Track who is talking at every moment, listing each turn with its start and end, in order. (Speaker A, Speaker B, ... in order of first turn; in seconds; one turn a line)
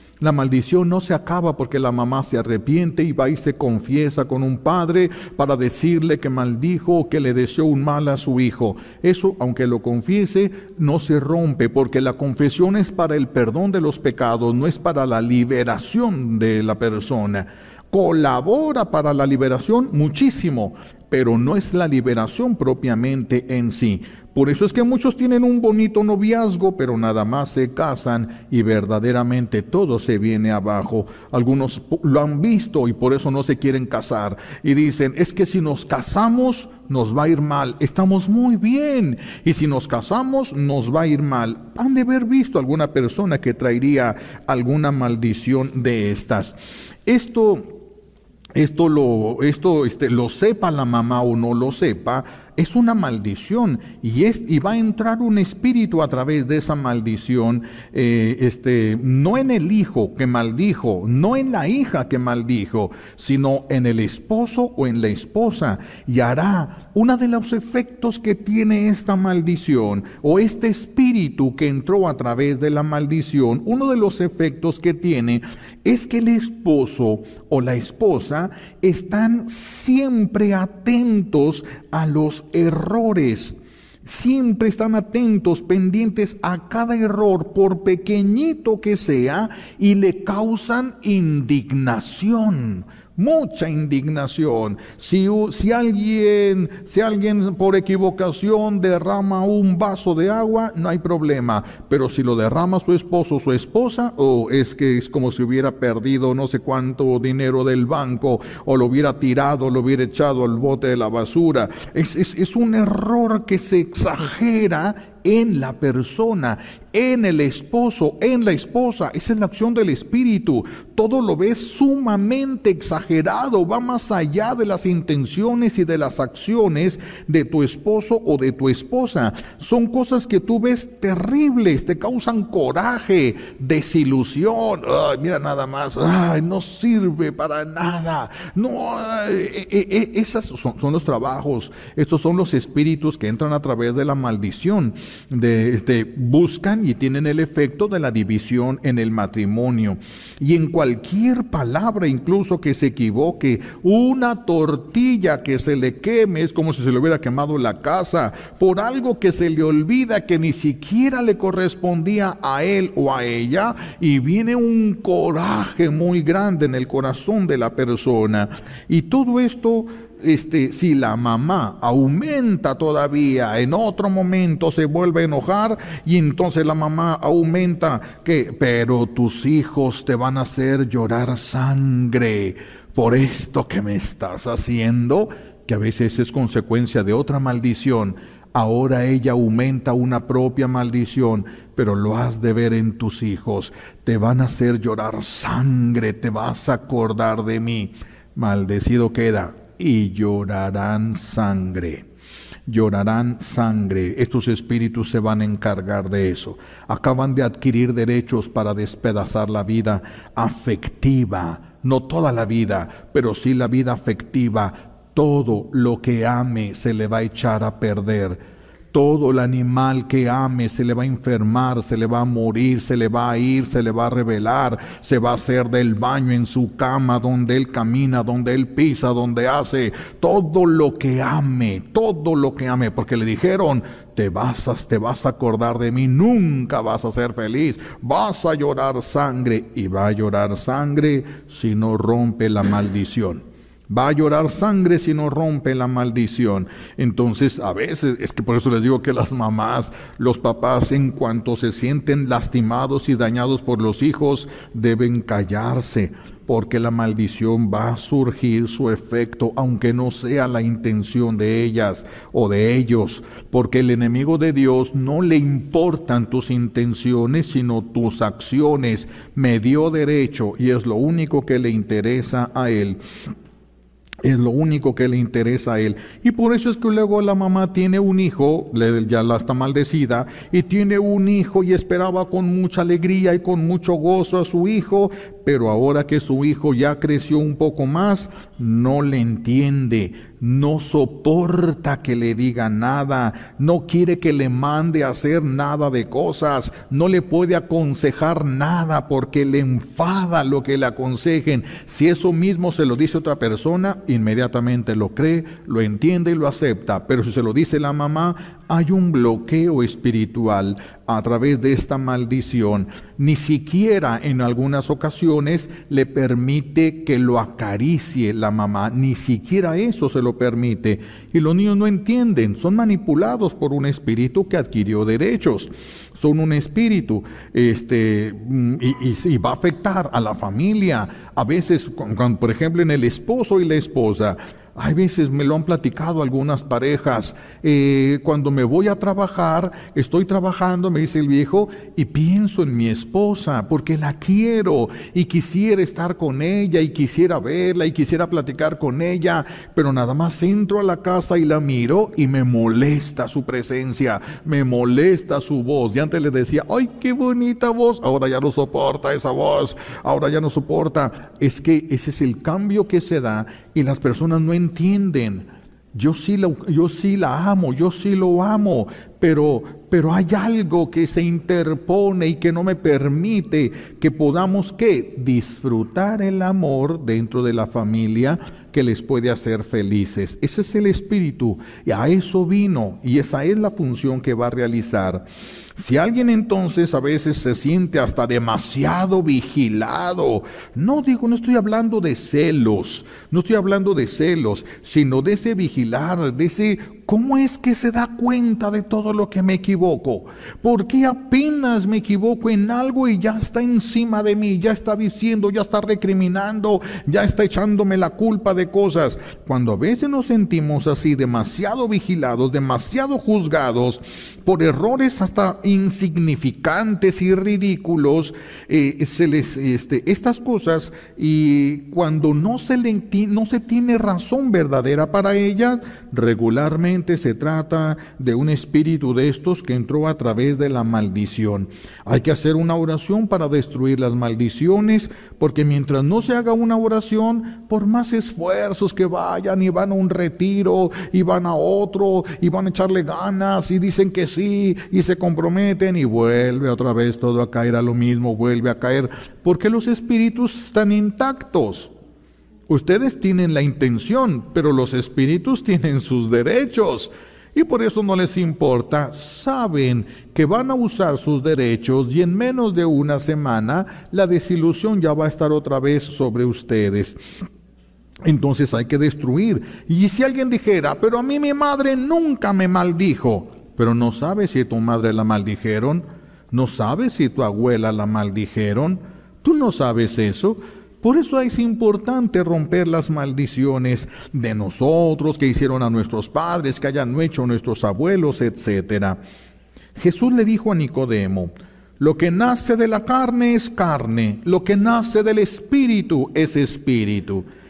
Speaker A: 0.2-47.8
Speaker A: 48.5-202.1
Speaker A: 202.7-218.4
Speaker A: 218.9-273.0
Speaker A: 274.2-385.2
Speaker A: 385.8-451.9
Speaker A: 452.7-467.2
Speaker A: 468.2-489.2
Speaker A: 490.0-497.4